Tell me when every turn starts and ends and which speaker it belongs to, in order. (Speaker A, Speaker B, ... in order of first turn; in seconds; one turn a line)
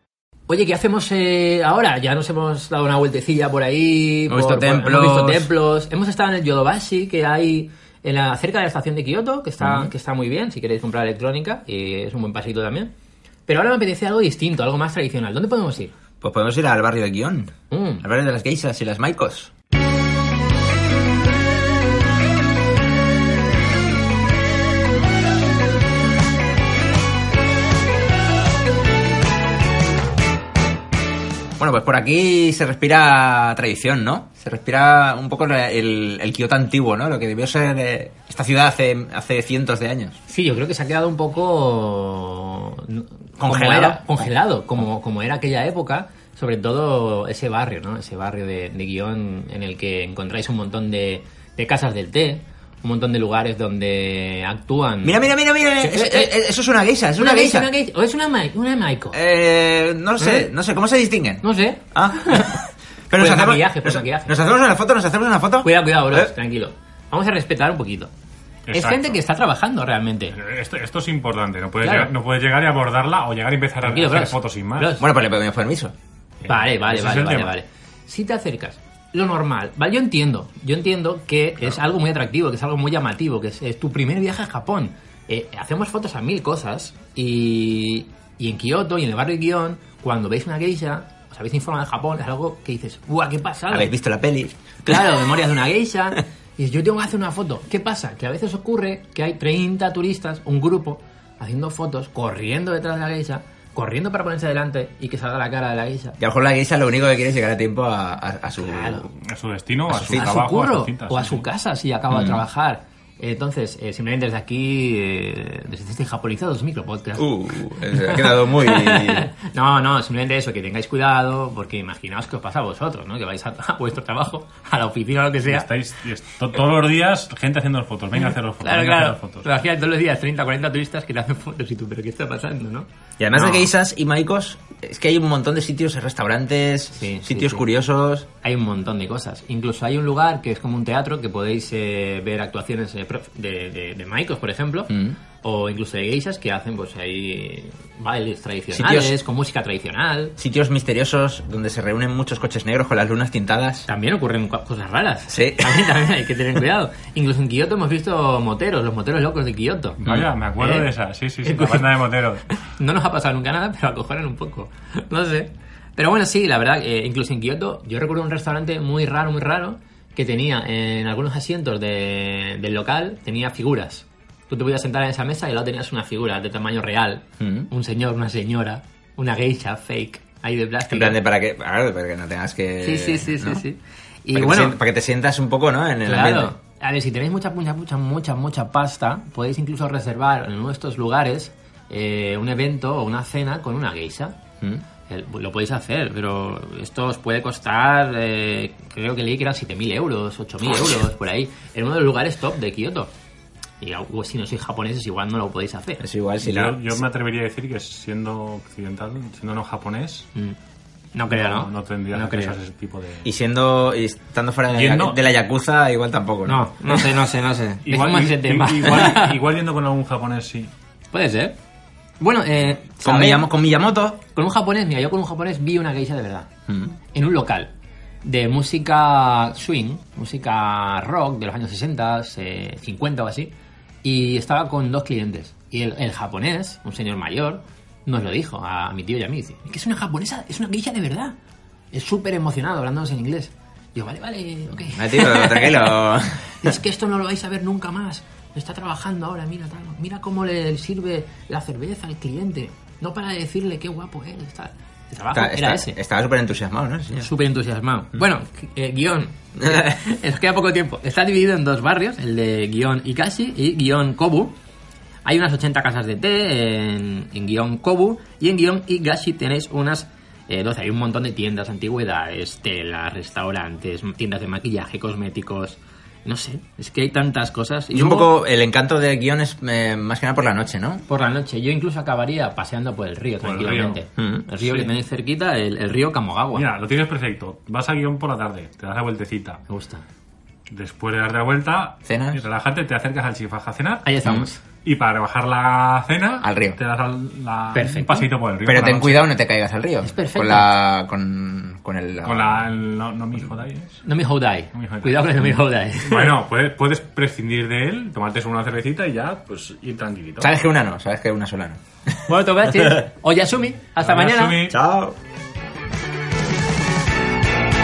Speaker A: 0.5-12.9
Speaker B: 4.3-5.5
Speaker B: 9.6-9.9
Speaker A: 13.5-15.9
Speaker B: 16.2-19.5
Speaker A: 17.7-18.1
Speaker B: 31.6-40.2
Speaker A: 40.3-56.3
Speaker B: 43.4-44.0
Speaker B: 55.0-57.7
Speaker A: 57.2-59.2
Speaker B: 59.1-66.3
Speaker A: 60.2-60.5
Speaker A: 61.4-64.5
Speaker A: 65.6-68.1
Speaker C: 68.7-69.1
Speaker A: 68.7-70.4
Speaker C: 70.4-74.9
Speaker A: 71.8-72.1
Speaker A: 73.8-75.0
Speaker B: 75.0-75.9
Speaker C: 76.4-77.5
Speaker A: 76.5-93.9
Speaker B: 93.7-95.2
Speaker A: 94.8-106.2
Speaker B: 106.2-109.1
Speaker A: 108.6-109.0
Speaker C: 109.2-111.4
Speaker B: 109.9-110.4
Speaker A: 110.0-125.7
Speaker B: 112.1-112.4
Speaker B: 117.2-119.3
Speaker C: 125.5-129.5
Speaker A: 128.2-133.7
Speaker B: 133.2-138.3
Speaker A: 136.9-137.6
Speaker A: 138.4-150.3
Speaker B: 144.9-145.2
Speaker B: 148.7-149.1
Speaker B: 150.4-153.8
Speaker A: 153.9-160.0
Speaker B: 155.3-155.9
Speaker C: 160.0-162.5
Speaker B: 160.0-160.3
Speaker A: 160.6-160.9
Speaker A: 161.4-162.0
Speaker A: 162.6-181.2
Speaker B: 177.4-177.7
Speaker B: 180.9-183.6
Speaker A: 182.8-184.8
Speaker B: 184.3-186.5
Speaker A: 186.1-194.4
Speaker A: 195.1-203.1
Speaker A: 203.8-206.0
Speaker B: 206.0-206.9
Speaker C: 206.4-210.3
Speaker A: 211.1-212.6
Speaker C: 211.3-213.2
Speaker B: 213.2-217.0
Speaker C: 214.7-215.2
Speaker A: 216.4-219.4
Speaker C: 217.8-220.7
Speaker A: 221.1-221.6
Speaker A: 222.2-223.5
Speaker B: 223.0-224.2
Speaker A: 224.3-226.5
Speaker B: 226.7-227.0
Speaker A: 227.1-227.7
Speaker A: 228.2-233.5
Speaker A: 234.0-241.3
Speaker A: 241.9-246.0
Speaker B: 244.9-246.8
Speaker A: 246.6-255.9
Speaker B: 255.3-257.3
Speaker A: 257.2-264.6
Speaker A: 265.2-278.3
Speaker B: 277.9-281.0
Speaker A: 281.1-286.7
Speaker C: 283.4-284.0
Speaker B: 284.2-284.4
Speaker C: 286.6-289.6
Speaker A: 289.7-290.1
Speaker C: 290.7-294.1
Speaker B: 292.1-292.4
Speaker A: 294.1-294.6
Speaker B: 294.2-294.5
Speaker C: 294.8-299.2
Speaker B: 296.4-296.8
Speaker A: 297.7-298.3
Speaker B: 298.6-302.6
Speaker A: 300.0-300.7
Speaker C: 302.2-304.0
Speaker A: 304.0-306.3
Speaker C: 304.7-305.2
Speaker C: 306.0-310.5
Speaker B: 310.4-311.8
Speaker A: 312.3-314.7
Speaker B: 312.7-313.0
Speaker C: 314.1-314.8
Speaker B: 314.7-315.1